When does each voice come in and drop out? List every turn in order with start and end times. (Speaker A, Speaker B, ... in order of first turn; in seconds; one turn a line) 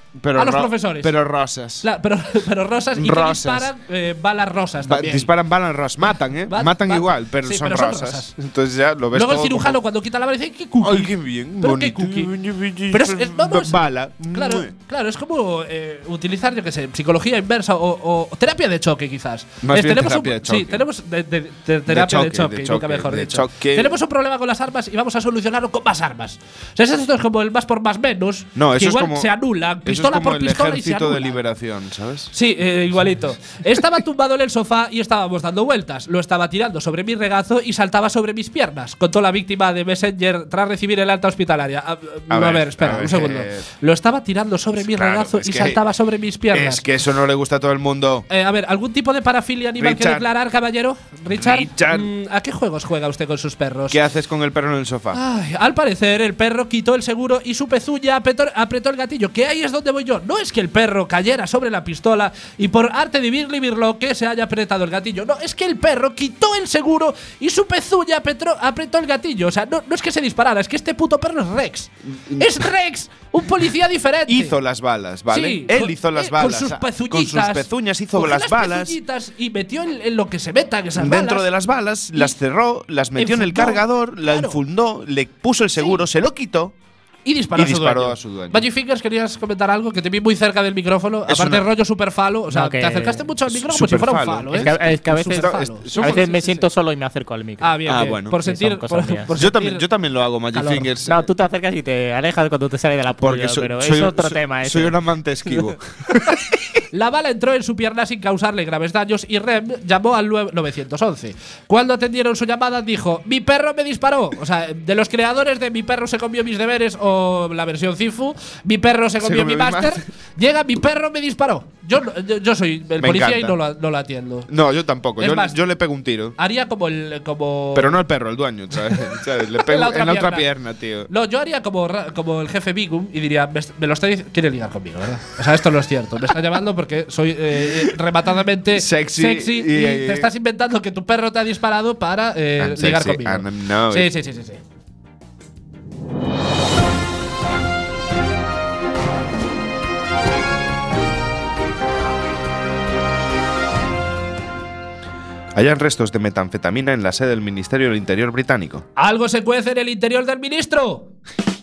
Speaker A: 0.2-1.9
Speaker B: 0.3-1.1
Speaker B: 1.8-5.3
Speaker A: 3.0-3.7
Speaker A: 4.8-9.8
Speaker B: 6.5-8.3
Speaker B: 9.1-12.3
Speaker A: 10.8-14.7
Speaker B: 12.9-31.4
Speaker A: 19.6-20.9
Speaker A: 21.9-24.0
Speaker A: 28.6-29.3
Speaker A: 29.9-32.3
Speaker B: 32.3-46.9
Speaker A: 42.3-43.7
Speaker A: 44.8-45.8
Speaker A: 46.5-48.3
Speaker B: 48.3-54.0
Speaker A: 49.8-50.3
Speaker A: 51.3-52.1
Speaker A: 53.9-55.2
Speaker B: 55.1-74.6
Speaker A: 72.2-72.7
Speaker A: 74.3-79.0
Speaker B: 75.3-81.5
Speaker A: 81.0-86.8
Speaker B: 83.2-84.6
Speaker B: 87.2-96.7
Speaker A: 87.6-88.7
Speaker A: 91.3-91.7
Speaker C: 92.5-93.3
Speaker A: 93.5-96.3
Speaker C: 94.5-99.3
Speaker B: 97.6-99.8
Speaker A: 97.9-98.4
Speaker A: 99.3-101.2
Speaker B: 100.5-100.9
Speaker C: 101.0-105.0
Speaker A: 103.2-106.8
Speaker C: 105.5-105.7
Speaker B: 106.9-124.5
Speaker A: 119.2-120.1
Speaker A: 123.0-123.6
Speaker A: 124.5-126.4
Speaker B: 125.2-125.6
Speaker B: 126.4-128.0
Speaker A: 127.8-131.1
Speaker B: 129.6-130.5
Speaker B: 131.1-144.6
Speaker A: 137.6-137.9
Speaker A: 138.7-140.3
Speaker A: 142.6-144.1
Speaker A: 155.6-158.8
Speaker B: 159.0-161.1